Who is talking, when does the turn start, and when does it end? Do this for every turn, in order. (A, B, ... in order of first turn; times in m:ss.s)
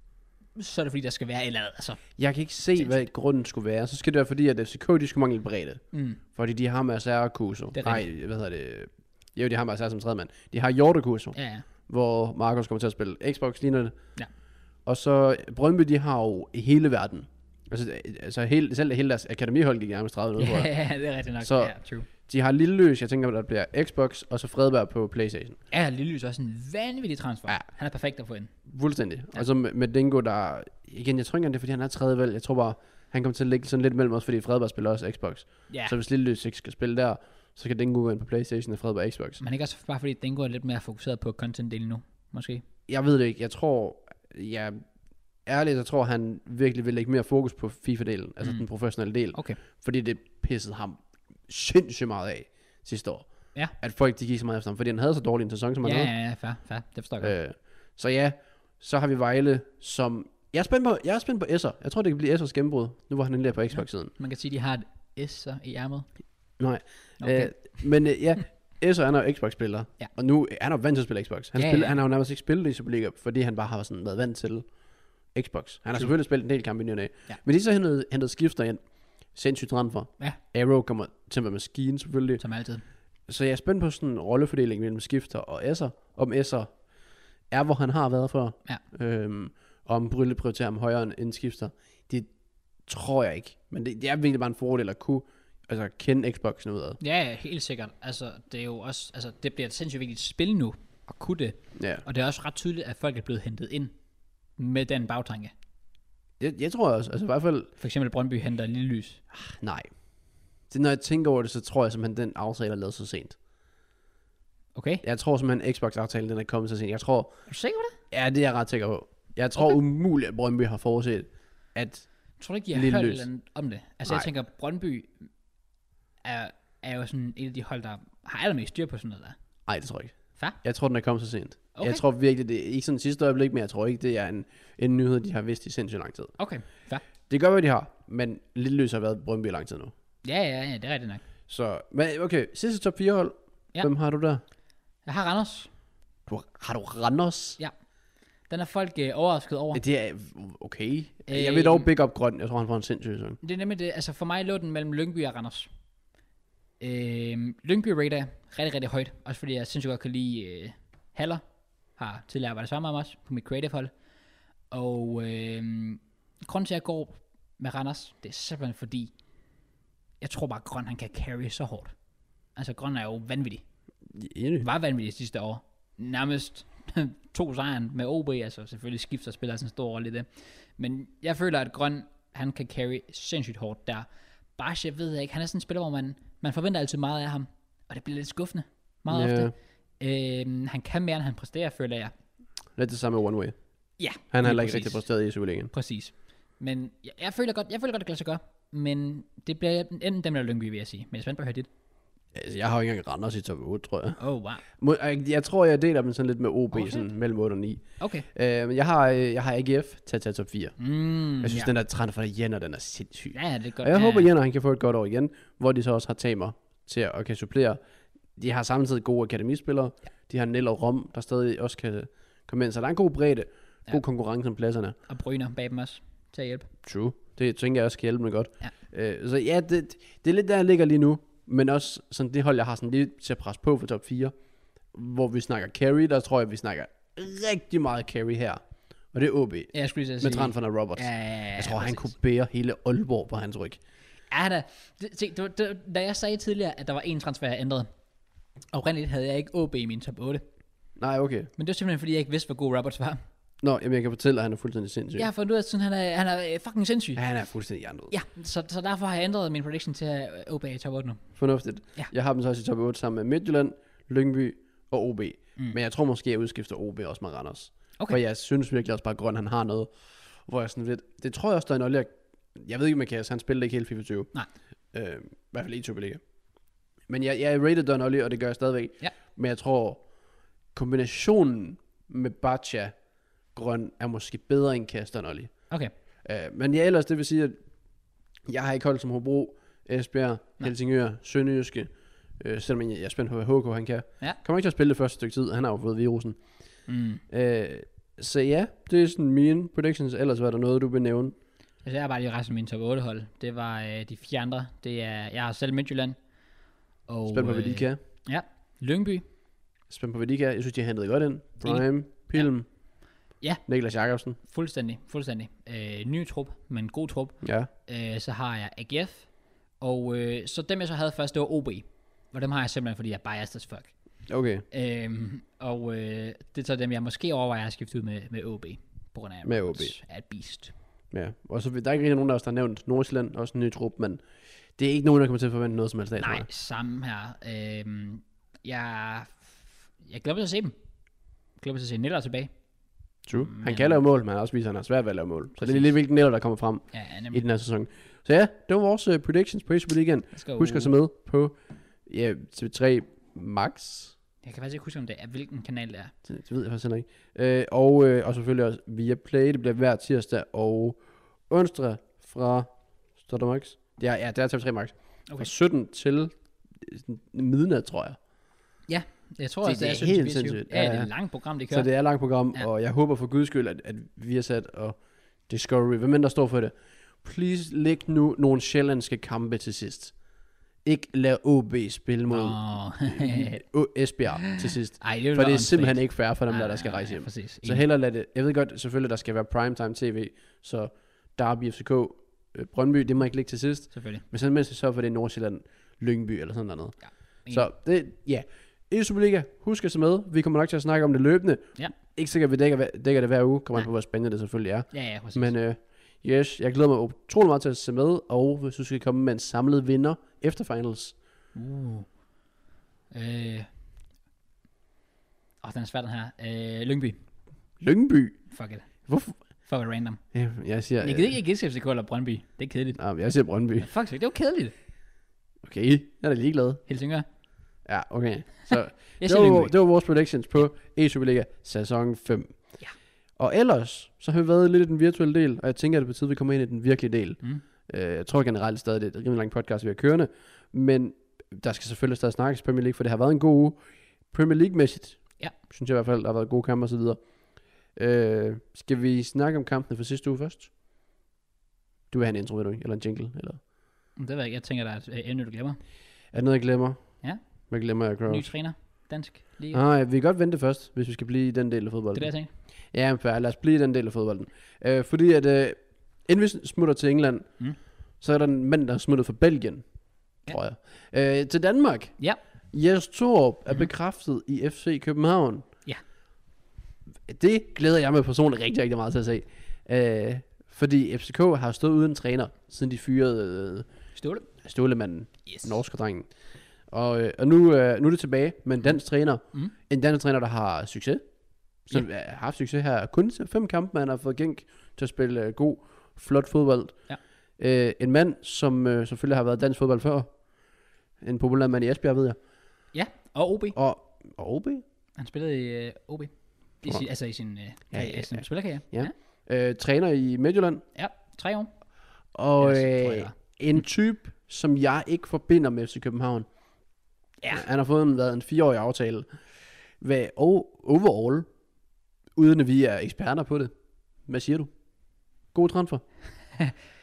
0:00.6-0:02.0 A
0:02.2-0:05.8 B
0:05.9-0:06.2 A
0:06.3-0:13.9 B
0:07.7-0:08.0 A
0:11.3-0:11.6 A
0:14.8-0:20.7 B
0:20.4-0:22.1 A
0:21.4-0:21.7 B
0:22.3-0:25.6 B
0:25.7-0:28.5 A
0:28.7-0:39.4 B
0:39.4-0:42.6 A
0:42.9-0:44.8 B
0:45.4-0:53.2 B
0:49.3-0:49.6 A
0:53.8-0:56.1 B
0:55.8-0:57.4 A
0:57.2-1:04.1 B
1:03.7-1:06.1 A
1:06.6-1:14.6 B
1:07.2-1:07.8 A
1:11.6-1:12.0 A
1:15.3-1:18.8 B
1:19.3-1:22.4 B
1:22.4-1:22.8 A
1:23.3-1:26.7 B
1:27.5-1:32.3 B
1:32.9-1:37.0 B
1:37.0-1:43.9 A
1:41.8-1:42.0 B
1:44.6-1:45.5 A
1:46.4-1:47.7 B
1:47.8-1:49.2 A
1:49.3-1:49.9 B
1:50.7-1:53.4 B
1:54.7-1:55.0 A
1:55.0-1:57.3 B
1:57.5-1:58.0 A
1:58.1-2:02.0 B
2:02.4-2:05.1 A
2:02.7-2:03.2 B
2:06.2-2:09.4 A
2:09.7-2:16.3 B
2:11.8-2:12.0 A
2:16.4-2:17.0 A
2:17.3-2:19.9 B
2:20.2-2:21.2 A
2:21.5-2:24.4 B
2:25.0-2:25.7 A
2:26.3-2:27.6 B
2:28.5-2:29.8 A
2:29.7-2:33.4 B
2:31.3-2:31.9 A
2:33.4-2:35.7 A
2:36.8-2:41.4 A
2:42.0-2:43.9 A
2:44.7-2:49.1 A
2:50.2-2:51.9 A
2:52.6-2:53.6 A
2:54.1-2:54.6 B
2:54.6-3:04.0 A
3:04.6-3:12.1 A
3:09.1-3:09.5 B
3:12.8-3:13.5 B
3:14.0-3:15.0 A
3:14.3-3:15.7 B
3:15.7-3:21.7 A
3:22.3-3:24.2 B
3:24.2-3:24.6 A
3:24.7-3:30.7 B
3:26.7-3:27.1 A
3:28.0-3:28.2 A
3:30.8-3:31.7 A
3:31.4-3:37.8 B
3:33.3-3:34.3 A
3:38.4-3:45.0 B
3:45.1-3:46.7 A
3:46.8-3:54.3 B
3:54.9-3:58.6 B
3:59.1-4:03.8 B
3:59.7-4:02.1 A
4:04.3-4:07.9 A
4:08.7-4:10.4 A
4:11.0-4:11.5 B
4:11.6-4:13.2 A
4:13.6-4:15.3 B
4:15.2-4:17.2 A
4:17.2-4:18.1 B
4:18.1-4:21.2 A
4:21.4-4:29.9 B
4:30.4-4:34.3 B
4:34.9-4:36.2 B
4:37.1-4:40.0 B
4:40.7-4:42.9 B
4:43.5-4:45.5 B
4:46.2-4:47.6 B
4:48.5-4:56.4 B
4:56.9-4:57.2 A
4:57.3-5:01.3 B
5:01.8-5:06.2 A
5:07.1-5:09.2 A
5:07.3-5:08.0 B
5:09.9-5:12.6 B
5:11.6-5:11.8 A
5:13.7-5:14.4 B
5:14.5-5:19.3 A
5:17.4-5:17.7 B
5:19.8-5:23.9 A
5:24.3-5:24.6 B
5:24.7-5:30.7 A
5:29.4-5:29.9 B
5:31.1-5:34.2 B
5:34.8-5:36.4 B
5:36.2-5:40.7 A
5:41.6-5:42.5 A
5:43.2-5:51.5 B
5:43.3-5:44.0 A
5:45.6-5:45.9 A
5:46.9-5:47.4 A
5:50.4-5:50.9 A
5:52.0-5:54.1 B
5:54.4-5:56.1 A
5:56.2-6:02.7 B
6:03.2-6:08.2 B
6:08.9-6:11.9 A
6:09.6-6:11.1 B
6:11.7-6:15.0 B
6:15.5-6:20.1 B
6:20.8-6:37.0 B
6:22.3-6:23.6 A
6:24.4-6:27.8 A
6:33.9-6:34.2 A
6:37.0-6:37.7 A
6:37.5-6:51.1 B
6:44.9-6:45.5 A
6:51.5-6:52.1 A
6:53.1-6:53.7 A
6:55.6-6:57.2 A
6:57.8-6:58.4 B
6:58.5-6:59.1 A
6:59.1-6:59.3 B
6:59.6-7:00.2 A
7:00.3-7:01.3 B
7:01.0-7:03.0 A
7:03.0-7:03.9 B
7:03.8-7:04.7 A
7:05.6-7:06.8 B
7:06.9-7:07.2 A
7:07.8-7:12.6 B
7:09.2-7:09.7 A
7:13.4-7:23.8 B
7:24.3-7:27.2 B
7:27.9-7:30.7 B
7:32.1-7:33.6 B
7:34.2-7:35.8 A
7:36.3-7:37.2 B
7:37.7-7:38.5 B
7:38.3-7:39.8 A
7:39.7-7:42.3 B
7:42.1-7:42.5 A
7:42.9-7:47.5 B
7:48.2-7:49.8 B
7:50.5-7:52.1 B
7:52.7-7:55.6 B
7:57.3-8:03.9 B
8:04.2-8:04.4 A
8:04.6-8:06.3 B
8:06.9-8:11.2 B
8:11.8-8:17.0 B
8:17.6-8:20.3 B
8:21.2-8:22.4 B
8:22.9-8:23.8 A
8:23.7-8:24.8 B
8:25.2-8:29.1 A
8:27.9-8:30.8 B
8:30.9-8:31.7 A
8:32.4-8:36.5 B
8:32.6-8:33.3 A
8:37.5-8:39.3 B
8:40.0-8:41.5 B
8:42.4-8:43.7 B
8:44.3-8:44.7 B
8:45.5-8:46.0 B